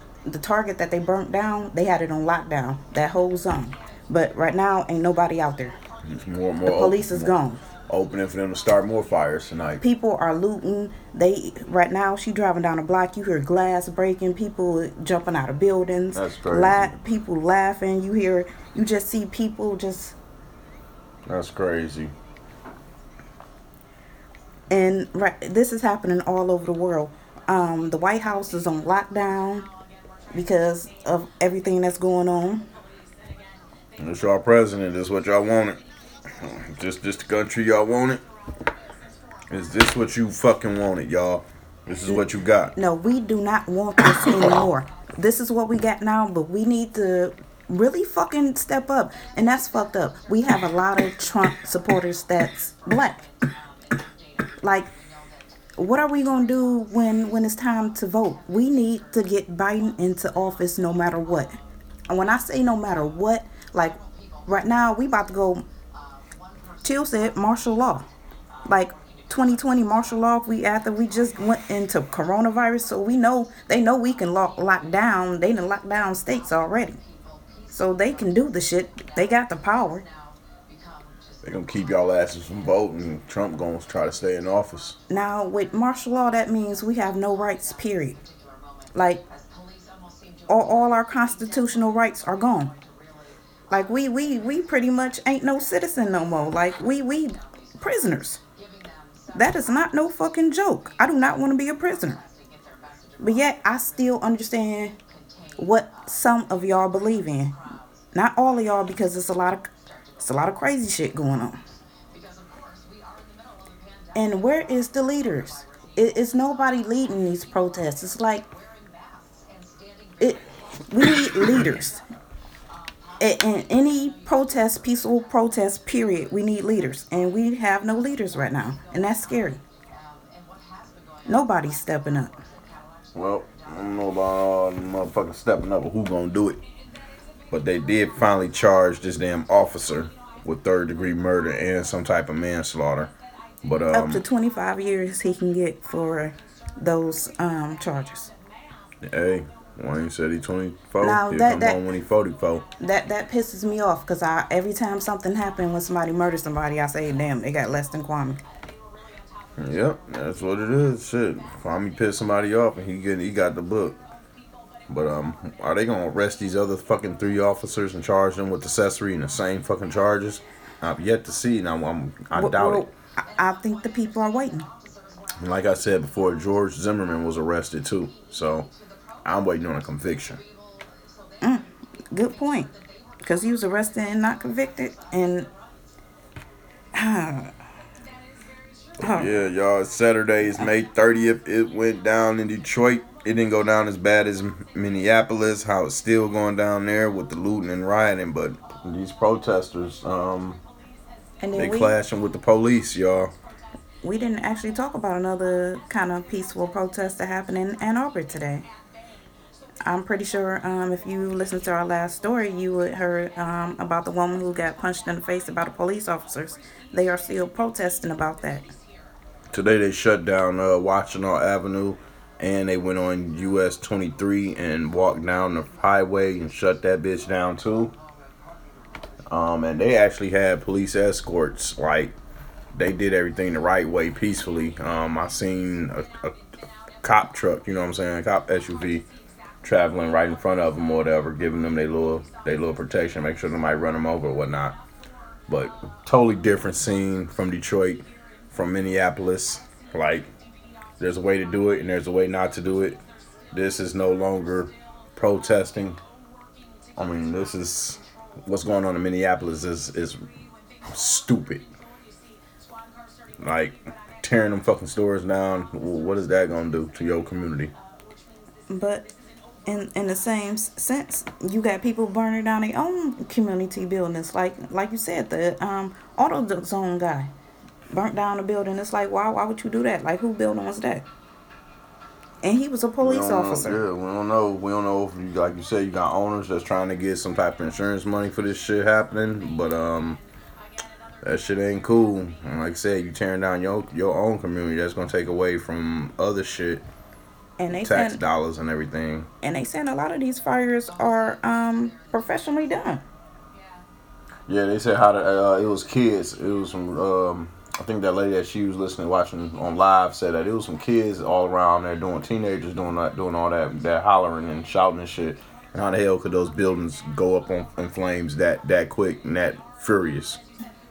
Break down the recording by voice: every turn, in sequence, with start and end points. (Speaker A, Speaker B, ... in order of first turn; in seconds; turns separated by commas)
Speaker A: 0.2-5.8, Speaker B: 6.0-7.4, Speaker A: 6.7-7.6, Speaker B: 7.9-9.8, Speaker A: 9.8-20.2, Speaker B: 16.1-17.0, Speaker B: 21.3-22.1, Speaker A: 24.7-29.7, Speaker A: 30.3-32.7, Speaker B: 34.0-38.2, Speaker B: 39.5-42.8, Speaker A: 42.8-53.3, Speaker A: 54.6-54.9, Speaker A: 55.8-61.6, Speaker A: 62.1-65.7, Speaker A: 66.8-68.1, Speaker A: 68.7-77.0, Speaker A: 77.7-80.1, Speaker B: 81.4-85.0, Speaker A: 85.1-88.2, Speaker A: 88.9-89.2, Speaker A: 90.5-92.8, Speaker A: 93.7-98.4, Speaker A: 99.3-102.2, Speaker A: 103.2-105.0, Speaker A: 105.6-107.6, Speaker A: 108.1-111.6, Speaker A: 114.2-118.5, Speaker A: 120.2-122.0, Speaker A: 123.2-129.6, Speaker A: 131.3-132.4, Speaker B: 133.1-136.6, Speaker B: 137.5-143.1, Speaker B: 143.6-144.2, Speaker A: 143.9-148.3, Speaker B: 149.0-152.7, Speaker A: 151.0-151.8, Speaker A: 152.8-158.4, Speaker B: 159.6-164.0, Speaker B: 164.9-172.8, Speaker A: 172.3-174.7, Speaker B: 175.4-178.7, Speaker B: 179.2-180.4, Speaker A: 181.4-185.5, Speaker A: 186.9-187.5, Speaker A: 189.0-189.3, Speaker B: 189.0-200.6, Speaker A: 201.4-202.0, Speaker B: 201.6-203.3, Speaker A: 204.0-208.7, Speaker A: 209.8-218.7, Speaker B: 219.5-227.9, Speaker B: 229.3-232.1, Speaker B: 232.8-236.4, Speaker B: 237.0-239.1, Speaker B: 239.6-244.8, Speaker B: 245.5-250.3, Speaker B: 251.0-256.0, Speaker B: 257.0-260.3, Speaker B: 260.9-261.6, Speaker B: 263.4-267.7, Speaker A: 268.7-269.1, Speaker A: 269.7-277.3, Speaker A: 277.9-281.1, Speaker A: 282.4-283.8, Speaker B: 283.0-290.2, Speaker B: 291.2-296.8, Speaker A: 297.6-298.2, Speaker B: 297.7-299.3, Speaker A: 299.4-303.0, Speaker B: 304.5-320.4